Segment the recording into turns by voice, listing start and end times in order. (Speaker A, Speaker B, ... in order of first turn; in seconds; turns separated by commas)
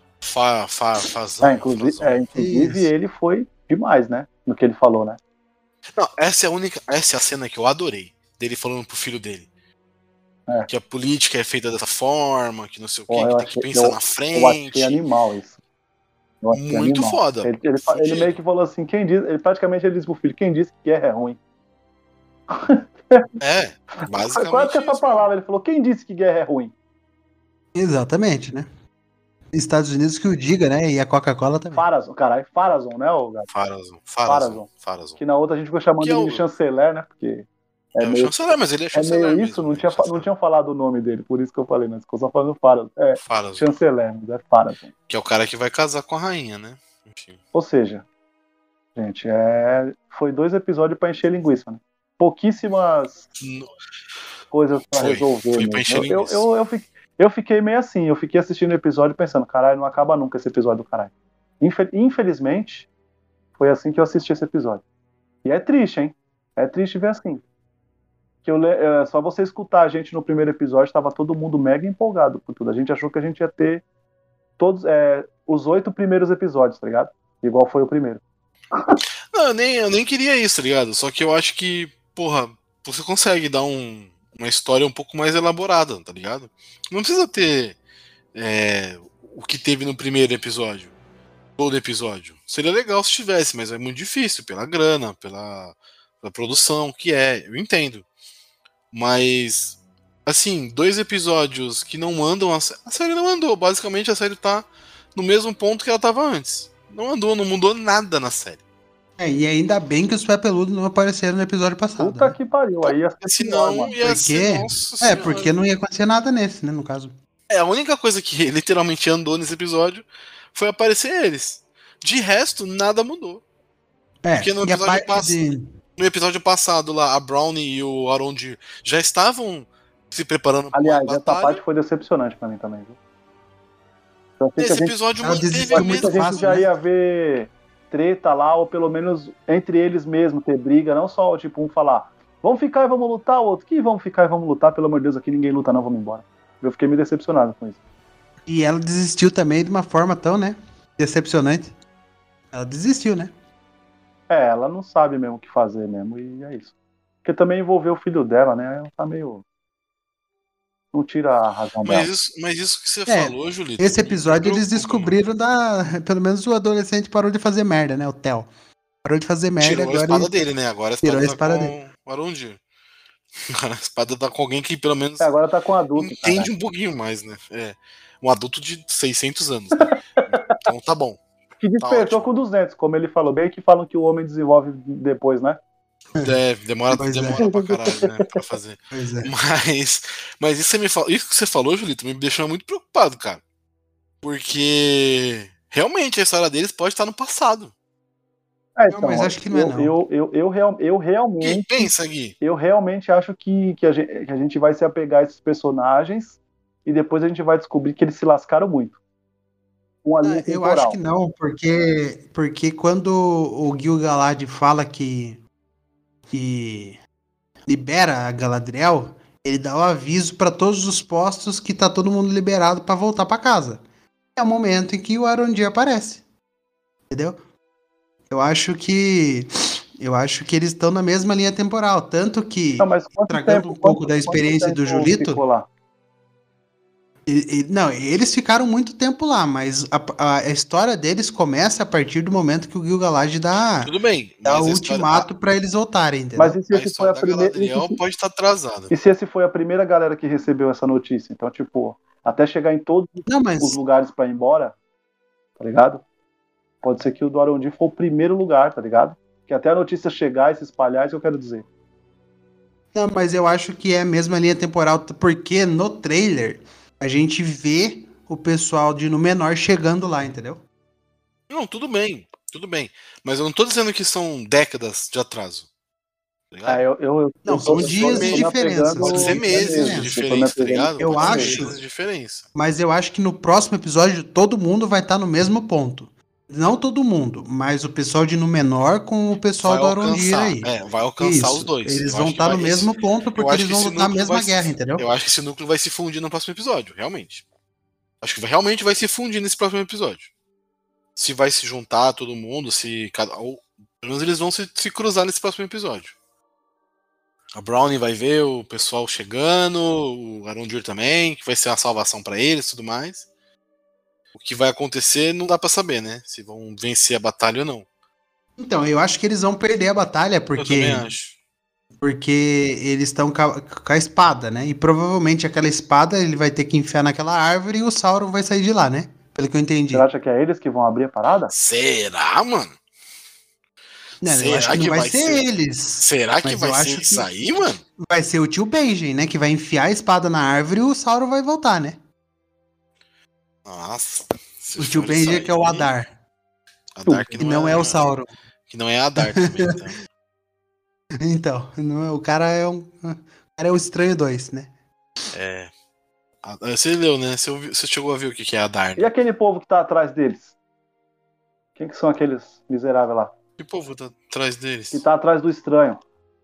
Speaker A: 0.2-2.2, Speaker B: 1.4-5.2, Speaker C: 2.3-2.9, Speaker A: 5.9-9.5, Speaker A: 10.7-15.0, Speaker B: 13.1-15.6, Speaker B: 16.4-21.4, Speaker A: 16.5-18.4, Speaker B: 22.5-23.3, Speaker A: 23.4-25.3, Speaker B: 24.0-26.7, Speaker C: 27.7-28.7, Speaker C: 29.5-31.8, Speaker B: 31.7-33.5, Speaker A: 33.5-35.2, Speaker B: 34.2-34.7, Speaker B: 35.2-44.9, Speaker A: 36.0-36.4, Speaker A: 38.0-40.3, Speaker A: 43.2-43.7, Speaker A: 45.1-47.4, Speaker B: 47.5-48.0, Speaker B: 49.0-53.2, Speaker A: 53.4-53.7, Speaker B: 54.5-62.9, Speaker A: 55.0-56.5, Speaker B: 63.6-64.8, Speaker B: 65.4-67.4, Speaker B: 68.4-73.8, Speaker B: 74.6-78.2, Speaker A: 79.3-87.8, Speaker A: 88.3-90.9, Speaker A: 91.6-98.0, Speaker A: 98.9-108.6, Speaker C: 109.2-112.3, Speaker B: 112.0-114.0, Speaker A: 112.8-115.5, Speaker C: 114.0-117.1, Speaker A: 117.5-123.4, Speaker C: 124.2-125.7, Speaker A: 124.4-125.4, Speaker A: 126.0-131.6, Speaker B: 130.7-132.9, Speaker B: 134.4-134.9, Speaker A: 134.6-136.6, Speaker C: 135.2-136.7, Speaker B: 135.7-147.8, Speaker C: 148.5-151.7, Speaker C: 152.5-153.3, Speaker B: 154.3-156.7, Speaker B: 157.2-159.4, Speaker B: 160.9-162.1, Speaker A: 161.8-165.1, Speaker C: 163.1-168.5, Speaker C: 169.0-170.3, Speaker A: 169.6-172.6, Speaker C: 171.0-171.7, Speaker A: 173.4-175.3, Speaker B: 175.2-176.5, Speaker A: 176.0-181.2, Speaker B: 180.2-180.6, Speaker B: 181.6-185.6, Speaker A: 181.8-182.3, Speaker A: 186.1-193.4, Speaker C: 186.9-187.4, Speaker B: 187.4-188.3, Speaker C: 188.9-189.3, Speaker A: 194.2-197.7, Speaker B: 198.8-201.9, Speaker C: 198.9-199.9, Speaker A: 201.4-202.3, Speaker B: 202.4-209.0, Speaker B: 210.0-211.0, Speaker C: 210.2-215.4, Speaker C: 216.3-217.0, Speaker C: 217.7-223.8, Speaker C: 224.3-226.2, Speaker C: 227.1-227.4, Speaker C: 228.3-235.4, Speaker B: 232.8-235.7, Speaker C: 237.3-246.6, Speaker A: 243.8-245.3, Speaker B: 246.4-248.0, Speaker A: 246.7-248.9, Speaker B: 248.9-254.7, Speaker C: 253.3-253.8, Speaker B: 255.6-256.0, Speaker B: 256.8-261.6, Speaker C: 262.9-270.6, Speaker A: 271.5-275.7, Speaker A: 276.5-276.8, Speaker B: 276.6-281.6, Speaker C: 277.4-280.1, Speaker A: 277.7-278.5, Speaker A: 279.0-282.4, Speaker C: 281.0-281.8, Speaker C: 282.5-295.1, Speaker A: 289.6-297.4, Speaker A: 298.2-300.3, Speaker A: 301.1-306.1, Speaker A: 307.5-313.2, Speaker A: 314.3-317.9, Speaker C: 318.6-321.1, Speaker A: 320.6-321.3, Speaker C: 322.0-330.1, Speaker B: 329.9-331.5, Speaker A: 331.5-332.7, Speaker C: 334.2-337.3, Speaker A: 334.2-335.4, Speaker A: 336.0-337.8, Speaker C: 338.0-342.0, Speaker A: 343.6-345.9, Speaker C: 344.8-346.1, Speaker A: 347.0-348.1, Speaker B: 347.1-347.4, Speaker C: 347.4-348.3, Speaker A: 348.7-350.0, Speaker C: 349.2-349.8, Speaker C: 351.2-354.7, Speaker A: 355.3-355.7, Speaker A: 356.4-359.1, Speaker B: 359.0-360.5, Speaker B: 361.8-363.3, Speaker A: 363.6-365.0, Speaker B: 364.9-366.0